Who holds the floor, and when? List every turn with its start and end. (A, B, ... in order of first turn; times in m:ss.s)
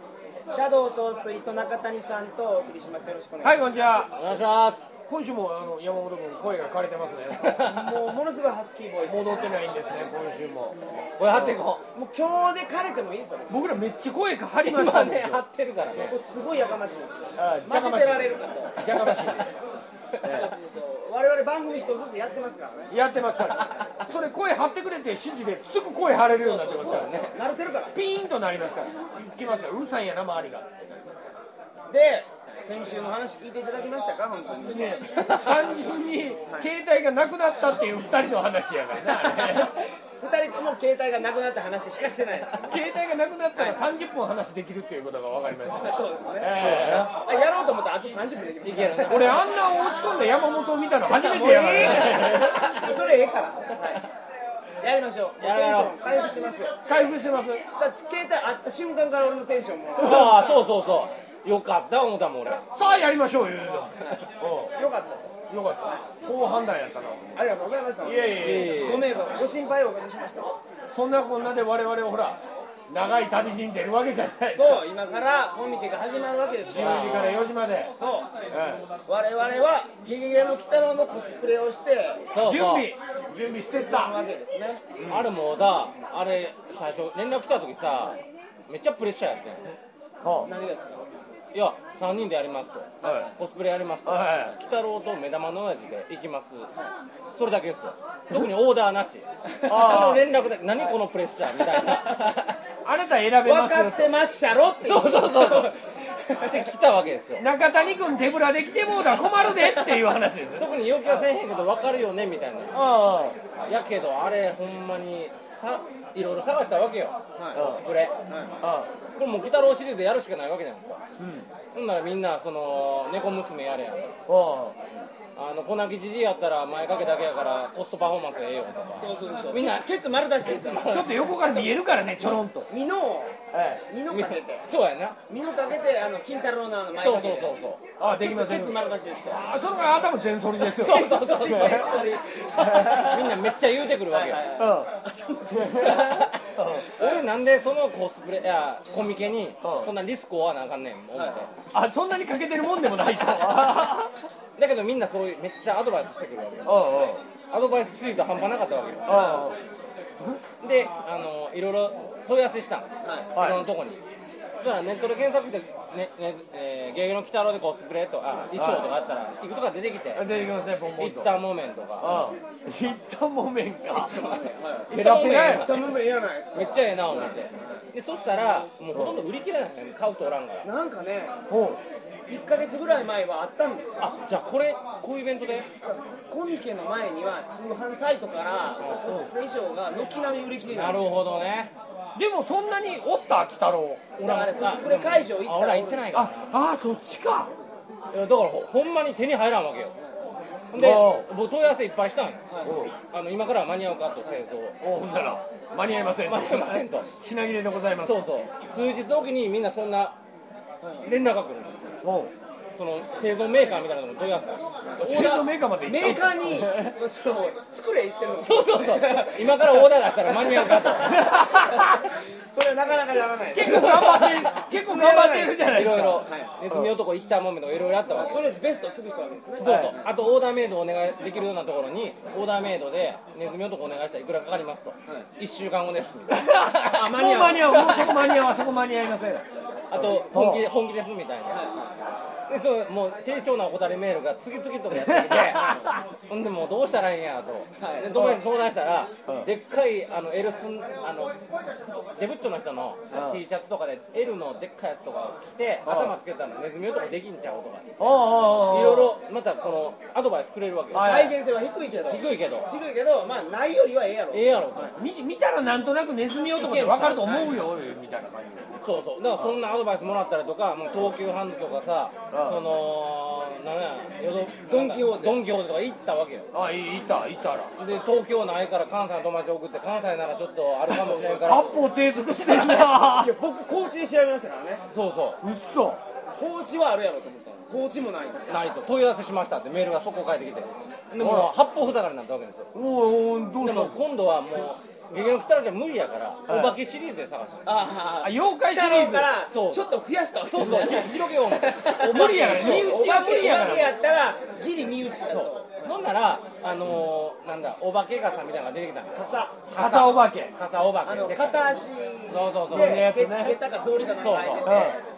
0:00.5-0:03.6 A
0:03.4-0:04.2 B
0:04.1-0:04.9 C
0:05.1-0:07.7 B
0:07.7-0:09.3 A
0:09.1-0:10.8 B
0:11.2-0:11.8 C
0:11.9-0:13.6 A
0:13.5-0:15.4 B
0:14.7-0:16.1 C
0:16.0-0:18.8 A
0:17.4-0:19.5 B
0:18.8-0:19.5 C
0:20.2-0:22.9 A
0:20.2-0:20.5 B
0:22.9-0:27.1 B
0:26.3-0:28.0 A
0:26.8-0:27.3 C
0:27.9-0:31.0 B
0:31.9-0:35.4 A
0:34.7-0:39.8 B
0:35.2-0:35.5 C
0:40.2-0:42.8 A
0:42.6-0:47.1 B
0:43.5-0:43.8 A
0:45.7-0:49.2 A
0:46.5-0:47.1 C
0:48.6-0:49.4 C
0:49.1-0:52.8 B
0:51.1-0:54.0 A
0:54.8-0:56.7 A
0:55.4-0:55.9 C
0:56.8-0:57.6 B
0:57.8-1:00.5 A
1:00.0-1:02.6 C
1:02.7-1:04.7 B
1:04.8-1:05.3 A
1:05.5-1:07.4 B
1:07.4-1:10.5 A
1:08.0-1:08.9 B
1:08.4-1:09.1 C
1:10.9-1:14.8 B
1:14.5-1:17.3 A
1:16.7-1:17.9 B
1:16.7-1:17.4 C
1:18.0-1:18.3 A
1:18.5-1:18.8 B
1:19.1-1:22.2 A
1:22.3-1:22.9 C
1:22.4-1:24.2 B
1:23.7-1:24.8 A
1:25.0-1:25.3 B
1:25.1-1:29.6 C
1:30.2-1:30.5 B
1:30.4-1:31.0 A
1:31.5-1:36.7 C
1:33.0-1:33.3 B
1:34.0-1:34.6 B
1:37.3-1:42.6 C
1:39.7-1:40.2 B
1:41.8-1:42.4 A
1:42.8-1:44.2 B
1:43.4-1:46.6 A
1:44.8-1:45.7 C
1:46.4-1:47.4 C
1:47.4-1:50.7 B
1:50.5-1:53.0 C
1:52.7-1:53.4 B
1:53.7-1:58.1 C
1:57.4-1:57.6 A
1:57.5-1:57.8 B
1:58.2-1:58.5 A
1:58.6-1:58.9 B
1:59.1-2:01.0 C
2:01.2-2:01.5 B
2:01.7-2:04.2 C
2:04.3-2:04.8 B
2:05.4-2:11.4 C
2:09.0-2:11.1 A
2:10.9-2:12.7 B
2:12.7-2:13.3 A
2:13.5-2:13.8 B
2:13.9-2:14.6 A
2:14.1-2:15.2 C
2:15.3-2:19.4 A
2:17.0-2:17.8 C
2:18.0-2:22.0 B
2:20.6-2:22.1 C
2:20.9-2:23.1 A
2:22.6-2:23.4 B
2:22.8-2:24.4 C
2:23.9-2:26.1 A
2:24.6-2:24.9 B
2:25.5-2:26.9 B
2:25.7-2:31.5 C
2:29.6-2:29.9 B
2:31.1-2:31.4 A
2:31.7-2:34.2 B
2:34.6-2:39.4 C
2:36.6-2:37.2 B
2:39.0-2:39.6 B
2:40.6-2:44.0 C
2:43.0-2:43.3 A
2:43.3-2:43.6 B
2:44.6-2:50.3 C
2:48.5-2:48.9 B
2:50.1-2:51.3 B
2:50.9-2:52.2 C
2:52.0-2:54.3 B
2:53.9-2:56.0 C
2:54.2-2:54.9 A
2:54.9-2:55.8 B
2:55.5-2:57.8 A
2:56.5-3:00.6 C
3:00.6-3:01.3 A
3:01.5-3:01.8 B
3:02.3-3:04.1 A
3:04.0-3:05.7 C
3:05.8-3:11.2 A
3:08.8-3:09.0 C
3:10.7-3:11.7 C
3:12.2-3:14.1 B
3:14.2-3:16.5 C
3:14.2-3:16.2 A
3:16.1-3:17.5 B
3:18.1-3:19.9 C
3:20.7-3:22.5 C
3:20.7-3:21.3 B
3:22.5-3:22.7 A
3:22.6-3:22.9 B
3:23.1-3:24.8 C
3:24.8-3:28.2 B
3:26.2-3:27.1 C
3:28.0-3:30.2 C
3:31.0-3:32.0 C
3:32.0-3:32.3 B
3:32.8-3:34.6 C
3:34.9-3:41.8 A
3:35.0-3:36.9 B
3:38.4-3:41.3 C
3:41.1-3:42.0 B
3:42.5-3:46.5 A
3:43.5-3:47.0 B
3:43.6-3:44.5 C
3:45.6-3:48.6 C
3:48.1-3:50.1 A
3:49.6-3:49.9 B
3:49.6-3:56.7 C
3:56.3-4:00.6 B
3:56.8-3:57.8 A
3:57.6-3:58.4 C
3:59.9-4:01.7 C
4:01.5-4:02.0 A
4:02.5-4:11.4 C
4:05.0-4:06.0 B
4:07.8-4:08.4 A
4:12.2-4:21.3 C
4:13.1-4:13.4 B
4:15.8-4:16.1 B
4:18.0-4:19.2 B
4:20.9-4:25.0 A
4:20.9-4:21.4 B
4:22.1-4:22.7 C
4:24.3-4:25.0 C
4:25.0-4:28.8 B
4:26.6-4:27.6 A
4:28.8-4:36.5 C
4:32.3-4:32.6 B
4:34.7-4:35.4 A
4:36.5-4:37.7 B
4:37.8-4:42.9 C
4:40.9-4:43.3 B
4:43.1-4:44.8 A
4:44.9-4:45.4 C
4:45.4-4:46.0 B
4:46.4-4:48.7 A
4:48.5-4:52.7 C
4:51.2-4:51.5 B
4:52.7-4:54.0 B
4:53.6-4:57.8 C
4:56.5-4:56.8 B
4:57.6-5:05.9 A
4:58.2-4:59.3 B
4:59.5-4:59.9 C
5:00.5-5:03.0 C
5:02.0-5:03.9 B
5:05.3-5:13.1 C
5:09.1-5:09.6 A
5:09.7-5:10.5 B
5:11.0-5:15.0 A
5:12.7-5:13.6 B
5:14.1-5:14.7 C
5:14.6-5:15.0 B